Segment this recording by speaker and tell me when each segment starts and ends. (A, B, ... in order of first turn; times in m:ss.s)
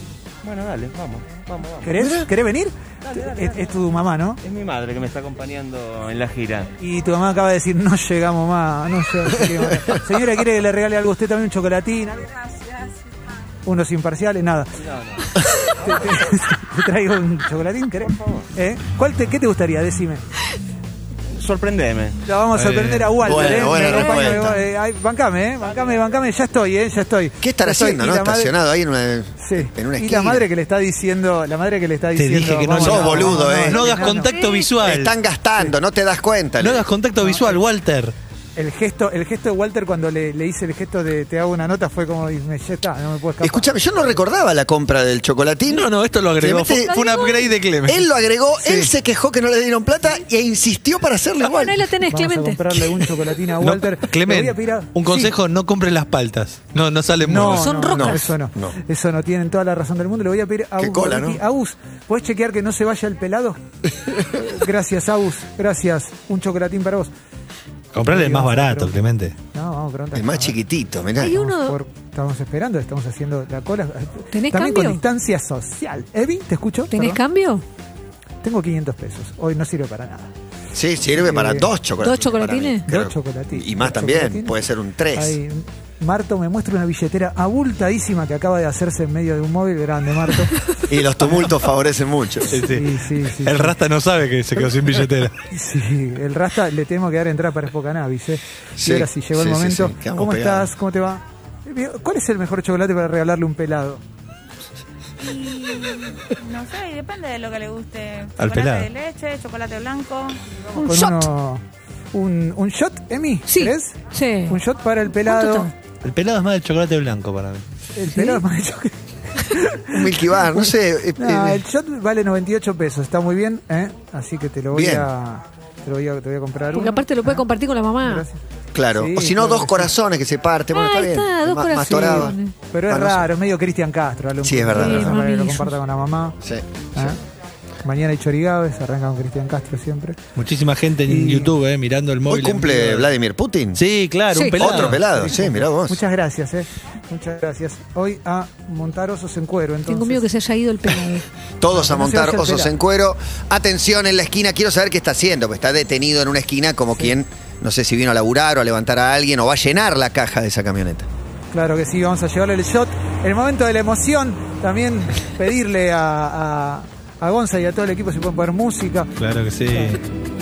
0:00.4-0:02.0 A
0:01.8-0:04.4 B
0:02.0-0:02.3 C
0:03.1-0:03.5 A
0:04.4-0:06.7 A
0:06.8-0:12.4 B
0:13.6-0:14.7 B
0:14.8-0:15.2 A
0:15.6-0:20.2 B
0:18.1-0:18.4 A
0:21.4-0:22.2 A
0:22.2-0:28.5 B
0:22.6-0:23.2 D
0:23.2-0:24.6 C
0:27.4-0:30.5 C
0:29.4-0:34.3 B
0:32.2-0:35.2 D
0:32.8-0:33.8 C
0:34.1-0:34.7 E
0:34.8-0:36.9 C
0:36.6-0:38.1 D
0:37.2-0:37.6 B
0:38.6-0:43.8 B
0:43.4-0:47.0 C
0:45.7-0:48.0 D
0:46.8-0:47.5 E
0:47.9-0:51.9 C
0:51.5-0:52.8 E
0:52.1-0:55.3 B
0:53.6-0:57.7 D
0:57.2-1:03.6 B
0:57.4-0:58.3 E
0:57.9-0:58.8 C
1:00.8-1:01.4 C
1:04.4-1:07.1 B
1:07.9-1:09.4 D
1:08.0-1:09.0 B
1:09.5-1:10.6 B
1:10.1-1:11.4 C
1:11.2-1:11.8 E
1:11.2-1:17.2 B
1:14.3-1:15.0 E
1:16.9-1:17.6 E
1:18.4-1:20.3 B
1:20.7-1:25.4 C
1:21.2-1:21.7 B
1:22.0-1:22.8 E
1:22.9-1:24.6 B
1:25.2-1:30.6 B
1:30.9-1:32.6 C
1:32.5-1:35.3 D
1:32.6-1:33.8 B
1:35.4-1:44.0 B
1:38.8-1:40.7 C
1:45.2-1:50.4 F
1:48.4-1:48.9 D
1:50.8-1:55.7 B
1:50.8-1:51.3 E
1:53.5-1:54.6 E
1:55.2-1:55.7 E
1:56.0-1:57.6 D
1:58.0-2:07.5 B
1:58.1-1:58.4 E
1:59.9-2:01.6 C
2:04.7-2:05.1 C
2:06.7-2:08.3 E
2:08.0-2:08.4 B
2:08.7-2:12.4 C
2:08.9-2:09.9 B
2:10.7-2:12.5 E
2:11.8-2:16.4 B
2:12.9-2:13.3 C
2:14.4-2:15.2 C
2:14.8-2:15.7 E
2:16.4-2:17.1 C
2:17.8-2:20.2 B
2:20.4-2:23.1 D
2:21.1-2:21.5 B
2:22.3-2:23.8 C
2:23.8-2:25.0 D
2:24.3-2:24.6 E
2:24.6-2:26.0 C
2:24.8-2:30.3 B
2:29.9-2:31.3 E
2:31.6-2:41.1 C
2:31.7-2:32.7 B
2:41.5-2:49.1 B
2:49.2-2:50.0 D
2:49.7-2:50.0 B